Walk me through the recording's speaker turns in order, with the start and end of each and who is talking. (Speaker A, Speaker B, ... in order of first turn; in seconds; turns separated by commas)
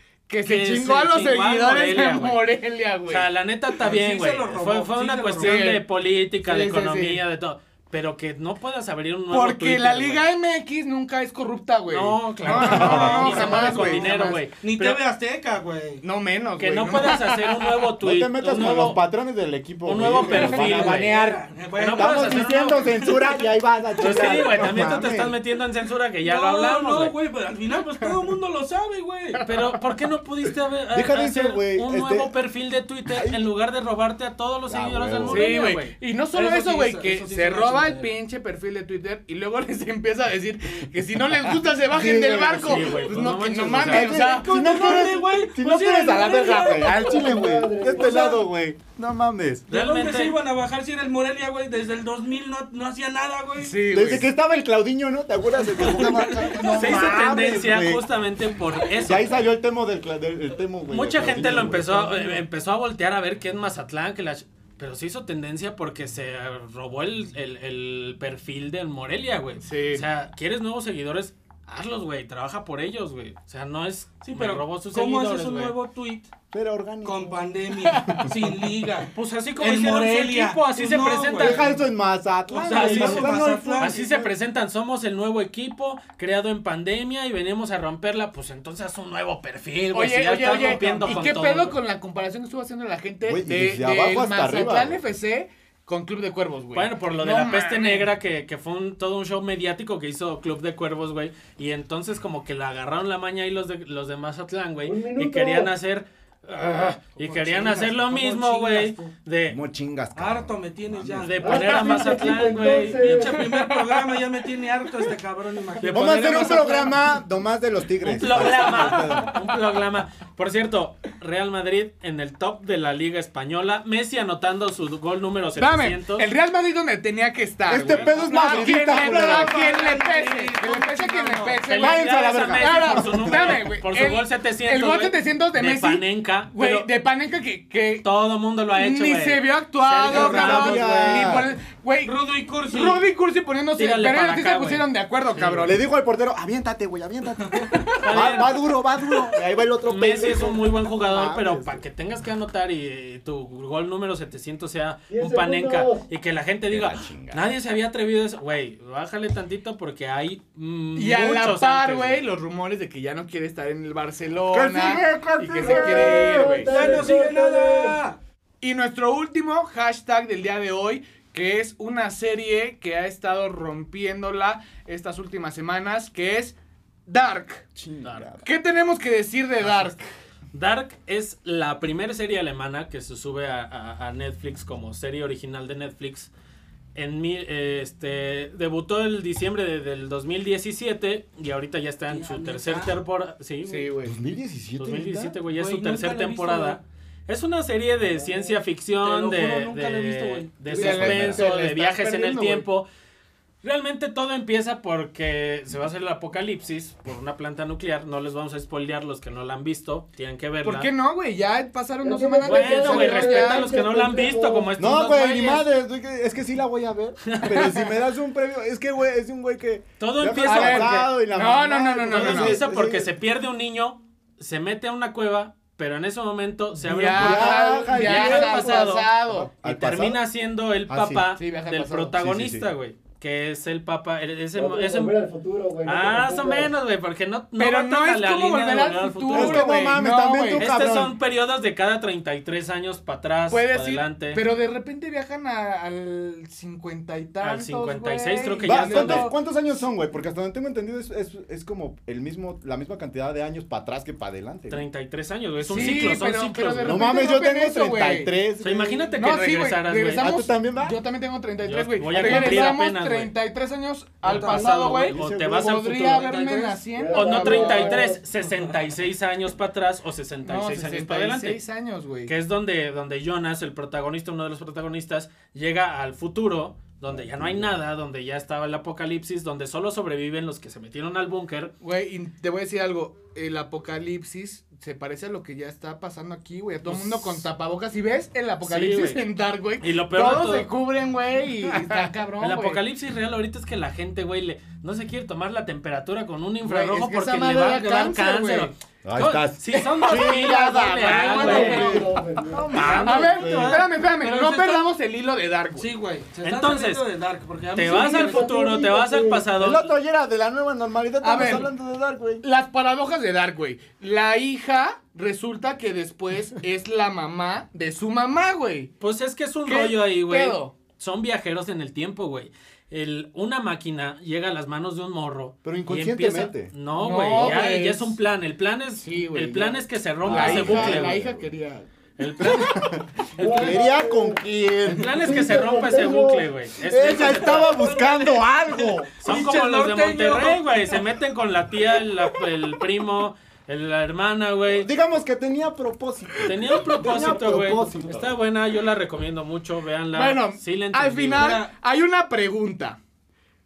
Speaker A: 0.3-3.3, Speaker B: 0.4-2.4, Speaker B: 3.1-10.3, Speaker C: 3.8-5.6, Speaker A: 5.4-5.8, Speaker A: 6.4-7.2, Speaker A: 9.3-14.4, Speaker B: 11.9-15.0, Speaker D: 12.5-13.7, Speaker C: 12.6-16.0, Speaker A: 16.0-17.6, Speaker B: 16.6-19.0, Speaker D: 18.0-21.4, Speaker B: 19.8-21.2, Speaker C: 20.2-23.4, Speaker B: 21.8-23.1, Speaker D: 21.9-25.3, Speaker B: 24.0-27.1, Speaker C: 24.0-25.0, Speaker C: 26.2-29.4, Speaker A: 29.4-29.6, Speaker B: 29.4-35.9, Speaker D: 30.9-32.3, Speaker D: 33.1-33.5, Speaker D: 34.7-35.5, Speaker A: 35.3-44.5, Speaker C: 36.3-38.1, Speaker D: 41.9-43.1, Speaker B: 42.5-44.1, Speaker D: 43.7-49.7, Speaker C: 43.9-47.0, Speaker A: 46.0-47.4, Speaker E: 46.9-48.4, Speaker A: 48.0-48.3, Speaker C: 49.7-53.8, Speaker B: 49.7-50.4, Speaker A: 53.6-54.3, Speaker D: 53.9-58.0, Speaker C: 55.8-56.9, Speaker B: 56.6-59.3, Speaker D: 59.0-62.3, Speaker B: 60.9-75.7, Speaker A: 69.6-70.0, Speaker C: 74.2-76.3, Speaker D: 76.5-78.5, Speaker C: 77.0-81.7, Speaker B: 79.1-81.8, Speaker D: 81.3-84.3, Speaker C: 82.5-84.3, Speaker B: 82.6-91.8, Speaker A: 89.9-98.1, Speaker D: 93.2-95.0, Speaker B: 96.7-109.6, Speaker E: 104.8-105.7, Speaker C: 107.2-109.1, Speaker D: 109.5-111.3, Speaker C: 110.1-112.1, Speaker B: 111.2-113.1, Speaker E: 111.4-113.5, Speaker C: 112.9-116.9, Speaker A: 113.1-114.2, Speaker D: 115.8-119.4, Speaker A: 115.9-116.8, Speaker B: 118.0-126.3, Speaker A: 118.4-119.4, Speaker A: 125.6-138.1, Speaker D: 127.7-129.7, Speaker B: 127.8-128.1, Speaker C: 128.3-131.6, Speaker B: 131.7-136.9, Speaker D: 131.8-133.6, Speaker B: 138.0-141.4, Speaker A: 138.7-145.8, Speaker D: 140.1-141.5, Speaker C: 142.0-143.0, Speaker B: 143.8-145.7, Speaker D: 145.6-151.8, Speaker C: 147.5-148.5, Speaker B: 148.0-148.6, Speaker B: 149.8-162.2, Speaker E: 155.1-156.0, Speaker D: 156.7-157.4, Speaker A: 160.9-165.1, Speaker D: 164.5-167.1, Speaker B: 165.4-165.9, Speaker A: 165.6-167.0, Speaker E: 165.6-168.0, Speaker C: 166.6-168.2, Speaker A: 168.6-176.5, Speaker A: 177.1-177.6, Speaker D: 177.8-178.4, Speaker B: 178.0-178.3, Speaker A: 178.4-180.0, Speaker B: 179.6-179.9, Speaker B: 180.5-186.3, Speaker B: 186.9-193.9, Speaker C: 192.1-192.9, Speaker A: 193.6-194.2, Speaker D: 194.0-195.3, Speaker B: 194.8-202.9, Speaker C: 195.5-196.8, Speaker C: 199.0-201.1, Speaker A: 200.7-202.7, Speaker D: 200.7-201.4, Speaker B: 203.6-210.9, Speaker A: 210.6-213.7, Speaker E: 212.0-214.7, Speaker B: 212.4-215.7, Speaker D: 214.8-223.1, Speaker B: 217.3-217.9, Speaker B: 220.0-221.1, Speaker A: 220.4-222.6, Speaker B: 222.1-229.1, Speaker A: 226.8-229.5, Speaker D: 227.0-230.2, Speaker B: 229.6-235.1, Speaker D: 230.9-231.3, Speaker A: 231.3-232.1, Speaker D: 232.1-232.7, Speaker E: 234.5-236.7, Speaker B: 235.8-239.8, Speaker A: 237.6-240.7, Speaker D: 239.3-241.1, Speaker B: 240.6-244.4, Speaker A: 243.5-249.4, Speaker B: 247.4-249.3, Speaker D: 248.6-254.8, Speaker B: 254.7-257.0, Speaker A: 255.6-258.3, Speaker D: 255.7-256.2, Speaker D: 256.8-259.2, Speaker B: 258.6-260.3, Speaker A: 259.2-268.1, Speaker D: 260.1-261.0, Speaker B: 261.6-263.3, Speaker D: 262.1-262.8, Speaker B: 264.2-271.6, Speaker C: 264.3-264.6, Speaker D: 264.3-265.8, Speaker E: 266.9-268.2, Speaker A: 270.4-272.3, Speaker B: 272.2-281.7, Speaker D: 277.4-277.7, Speaker A: 281.8-292.8, Speaker B: 286.8-287.5, Speaker B: 288.6-289.3, Speaker B: 289.8-290.7, Speaker B: 292.4-302.1, Speaker A: 296.6-298.7, Speaker D: 299.0-303.9, Speaker A: 299.9-302.0, Speaker C: 301.1-302.1, Speaker E: 301.4-302.8, Speaker B: 302.7-303.9, Speaker C: 302.8-303.1, Speaker A: 302.9-305.9, Speaker C: 304.1-304.9, Speaker C: 305.7-308.5, Speaker B: 306.4-307.0, Speaker B: 307.7-309.9, Speaker E: 307.9-309.5, Speaker D: 309.5-312.4, Speaker A: 311.2-311.7, Speaker A: 312.4-318.9, Speaker B: 319.0-331.2, Speaker A: 319.6-320.7, Speaker D: 325.6-326.7, Speaker A: 327.0-328.1, Speaker D: 327.3-327.6, Speaker A: 329.0-331.9, Speaker D: 330.2-331.4, Speaker B: 332.2-333.8, Speaker D: 332.4-336.1, Speaker E: 333.4-334.4, Speaker B: 334.9-337.8, Speaker E: 335.1-336.5, Speaker D: 336.8-339.1, Speaker C: 337.0-340.6, Speaker B: 339.2-344.9, Speaker D: 344.7-348.4, Speaker B: 346.4-351.6, Speaker A: 350.1-353.0, Speaker C: 351.3-351.7